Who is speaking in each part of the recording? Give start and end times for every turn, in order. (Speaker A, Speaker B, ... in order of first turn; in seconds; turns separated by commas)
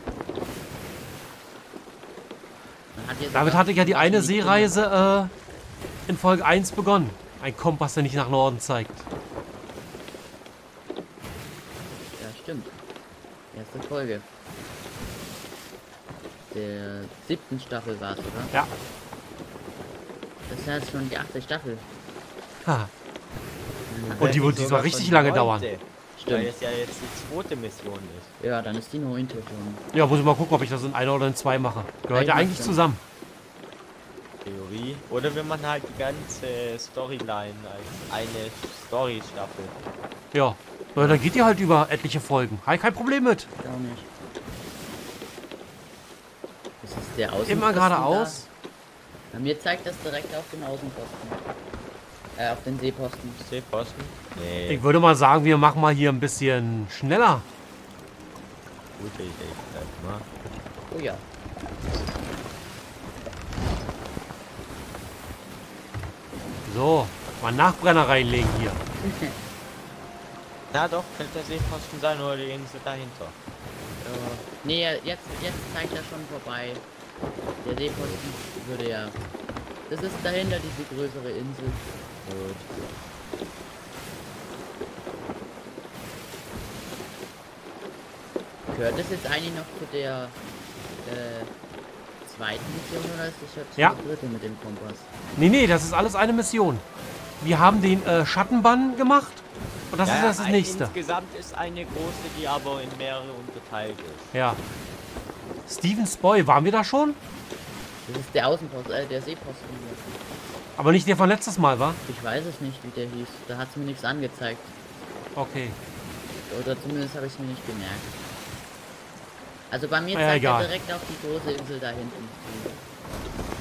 Speaker A: 2.9-4.7, Speaker B: 3.4-5.3, Speaker B: 6.1-9.1, Speaker A: 12.2-12.7, Speaker A: 13.5-14.3, Speaker A: 16.5-18.5, Speaker A: 20.5-21.9, Speaker B: 22.6-22.9, Speaker C: 23.9-28.3, Speaker B: 24.2-25.7, Speaker A: 26.2-26.5, Speaker A: 28.4-29.8, Speaker B: 29.9-33.0, Speaker A: 32.1-32.8, Speaker C: 34.4-39.8, Speaker B: 40.3-43.5, Speaker A: 43.6-44.1, Speaker A: 46.8-48.5, Speaker B: 47.5-48.5, Speaker A: 49.3-51.5, Speaker A: 52.4-53.4, Speaker C: 53.4-54.9, Speaker B: 54.7-57.5, Speaker C: 59.0-60.3, Speaker A: 60.9-61.2, Speaker B: 66.7-68.8, Speaker A: 69.0-69.4, Speaker C: 70.7-73.4, Speaker A: 74.0-76.8, Speaker A: 77.6-79.2, Speaker C: 78.0-78.2, Speaker A: 79.9-81.8, Speaker C: 82.2-82.9, Speaker A: 88.7-90.4, Speaker A: 91.0-91.5, Speaker A: 92.2-95.1, Speaker B: 95.4-96.8, Speaker B: 97.4-100.9, Speaker C: 100.0-104.3, Speaker B: 104.3-104.6, Speaker B: 105.7-107.2, Speaker A: 108.0-110.0, Speaker B: 110.8-112.0, Speaker A: 112.1-114.7, Speaker B: 115.3-115.8, Speaker A: 116.5-118.1, Speaker A: 119.7-122.8, Speaker B: 120.1-120.7